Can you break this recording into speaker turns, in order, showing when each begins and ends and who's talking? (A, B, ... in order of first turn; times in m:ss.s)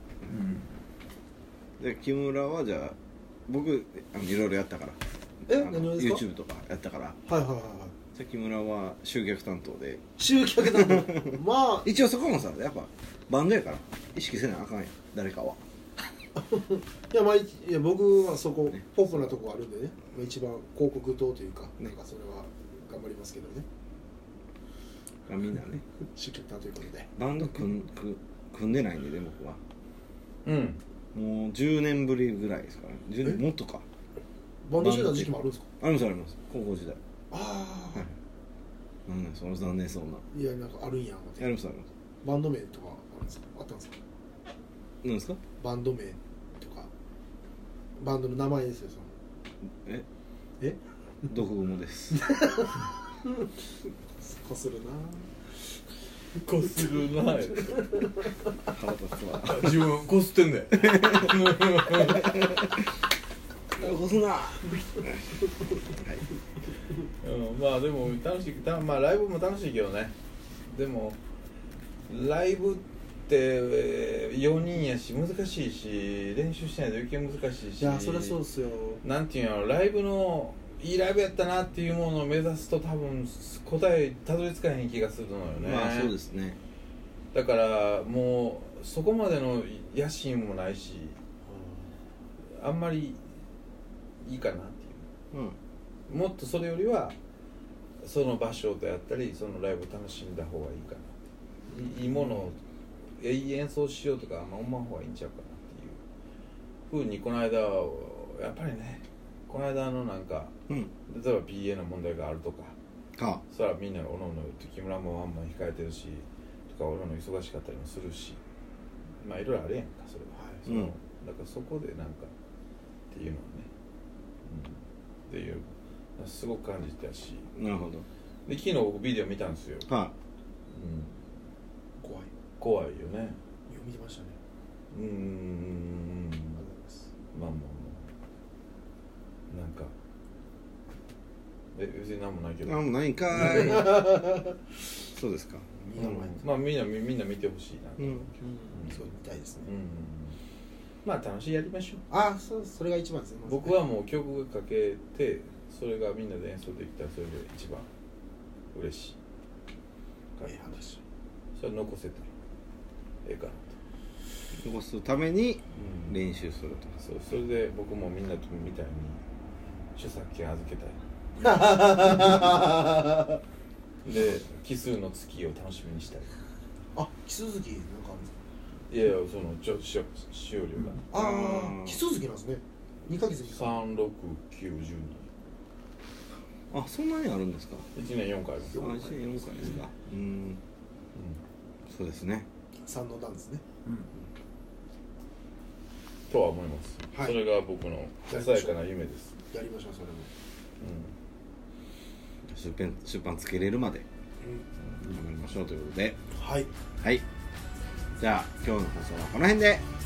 0:00.2-0:00.7 A
0:01.8-0:03.0 B
0:03.5-0:07.2 B
0:05.5-0:06.2 C
0:07.2-0:07.9 C
0:08.1-0:10.0 B
0:10.2-0:11.9 C
0:10.6-0:15.6 B
0:16.4-0:23.6 C
0:18.7-0:19.4 B
0:25.3-0:25.8 B
0:26.1-0:27.1 C
0:27.2-0:29.6 B
0:30.4-0:30.8 A
0:31.1-0:33.8 B
0:34.6-0:35.6 C
0:34.8-0:37.0 B
0:37.3-0:38.1 C
0:39.1-0:40.2 B
0:40.3-0:41.5 C
0:41.4-0:41.9 B
0:42.2-0:44.0 C
0:45.0-0:45.4 B
0:45.6-0:46.9 C
0:48.0-0:49.1 C
0:51.3-0:52.2 B
0:52.1-0:53.3 C
0:54.2-0:55.3 C
0:56.3-0:58.0 A
0:58.7-0:59.8 B
0:59.4-1:02.5 A
1:01.0-1:01.3 B
1:02.0-1:02.6 B
1:03.8-1:06.2 B
1:07.2-1:10.1 A
1:10.6-1:11.2 A
1:12.1-1:18.4 A
1:17.8-1:19.0 C
1:19.0-1:26.1 A
1:25.6-1:26.6 B
1:27.3-1:31.2 A
1:31.5-1:31.9 C
1:32.5-1:33.2 A
1:34.2-1:35.0 A
1:35.3-1:35.6 B
1:36.1-1:37.2 A
1:38.0-1:41.2 A
1:41.7-1:42.3 C
1:41.7-1:42.6 A
1:43.2-1:46.0 A
1:46.9-1:50.5 A
1:51.0-1:52.8 A
1:53.2-1:53.4 B
1:53.5-1:58.4 A
1:59.2-2:02.3 A
2:00.6-2:00.9 B
2:03.1-2:03.7 A
2:04.4-2:07.5 A
2:07.5-2:08.1 B
2:08.4-2:09.9 A
2:09.8-2:10.1 B
2:10.7-2:11.2 A
2:12.0-2:12.3 C
2:12.6-2:13.4 A
2:13.7-2:14.4 C
2:14.9-2:16.6 A
2:16.6-2:17.1 C
2:17.3-2:18.1 A
2:19.5-2:19.9 A
2:21.7-2:23.8 A
2:22.6-2:24.3 B
2:23.3-2:24.4 C
2:25.1-2:25.6 B
2:25.8-2:26.4 C
2:25.9-2:30.4 A
2:28.0-2:28.3 B
2:28.4-2:29.7 C
2:31.0-2:32.0 A
2:32.1-2:33.8 C
2:33.4-2:37.9 A
2:38.7-2:39.2 A
2:40.4-2:40.8 A
2:40.4-2:41.0 C
2:41.5-2:42.3 A
2:43.2-2:43.8 A
2:44.5-2:47.0 B
2:45.8-2:46.1 A
2:47.0-2:49.2 A
2:50.0-2:51.0 A
2:51.4-2:53.2 C
2:54.0-2:56.3 A
2:56.9-2:58.4 C
2:58.9-3:01.0 A
3:01.1-3:03.8 C
3:01.1-3:02.0 B
3:03.5-3:05.3 A
3:06.7-3:07.8 B
3:07.9-3:08.9 A
3:08.7-3:10.6 B
3:11.1-3:11.4 A
3:11.9-3:12.5 B
3:12.8-3:13.6 C
3:16.3-3:19.3 A
3:17.1-3:17.4 C
3:18.3-3:18.8 C
3:19.5-3:20.3 C
3:20.8-3:21.1 A
3:22.4-3:24.0 B
3:25.0-3:26.2 B
3:26.3-3:26.7 C
3:28.2-3:29.8 B